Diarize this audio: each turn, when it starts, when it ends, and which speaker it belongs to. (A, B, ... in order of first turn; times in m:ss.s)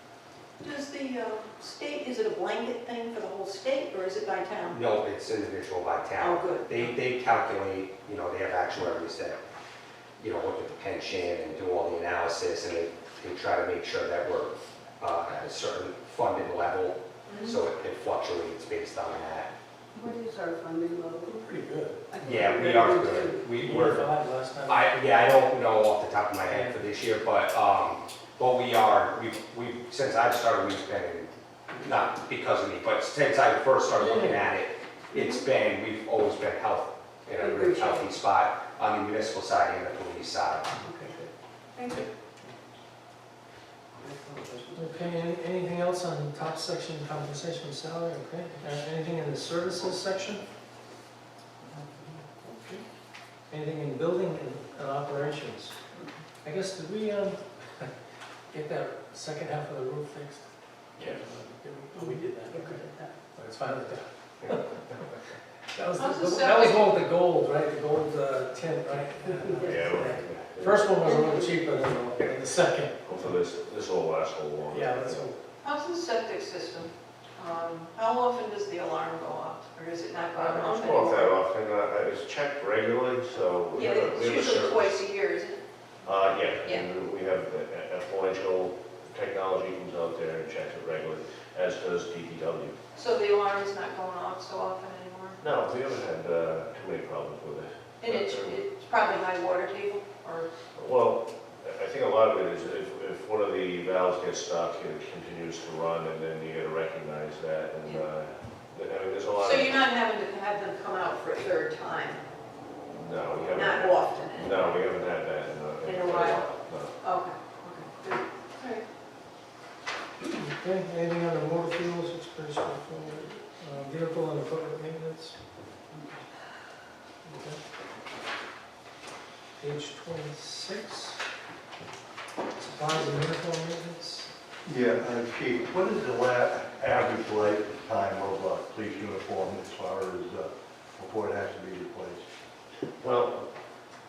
0:00.6-0:04.8 A
0:04.7-0:09.4 B
0:06.2-0:06.9 A
0:10.2-0:19.5 B
0:17.3-0:17.5 A
0:19.9-0:21.5 C
0:21.4-0:22.0 D
0:22.1-0:23.5 C
0:22.2-0:24.1 B
0:23.6-0:25.3 D
0:24.6-0:40.7 B
0:26.4-0:26.8 D
0:33.9-0:34.4 D
0:35.1-0:35.4 C
0:37.4-0:38.2 C
0:40.8-0:42.1 C
0:41.9-0:42.5 D
0:44.0-0:45.1 C
0:44.7-0:50.4 D
0:51.8-0:52.1 C
0:52.4-0:52.8 D
0:53.5-0:55.8 D
0:56.4-0:57.9 D
0:58.5-1:02.8 D
1:01.9-1:03.2 C
1:03.3-1:05.1 D
1:05.7-1:13.0 D
1:06.0-1:06.9 A
1:09.2-1:10.2 C
1:09.6-1:10.8 E
1:11.0-1:11.6 C
1:13.0-1:15.2 E
1:14.7-1:15.4 D
1:15.6-1:21.4 A
1:20.3-1:24.9 E
1:23.7-1:25.6 A
1:26.0-1:32.8 E
1:32.9-1:35.4 A
1:35.4-1:38.6 E
1:38.0-1:40.5 A
1:40.8-1:49.8 E
1:49.4-1:52.2 A
1:52.9-1:56.9 E
1:53.5-1:54.9 A
1:55.8-1:56.5 A
1:57.0-1:58.8 A
2:00.2-2:05.3 D
2:07.2-2:07.6 D
2:09.6-2:11.2 D
2:12.6-2:14.3 D
2:14.6-2:22.2 F
2:23.0-2:23.5 E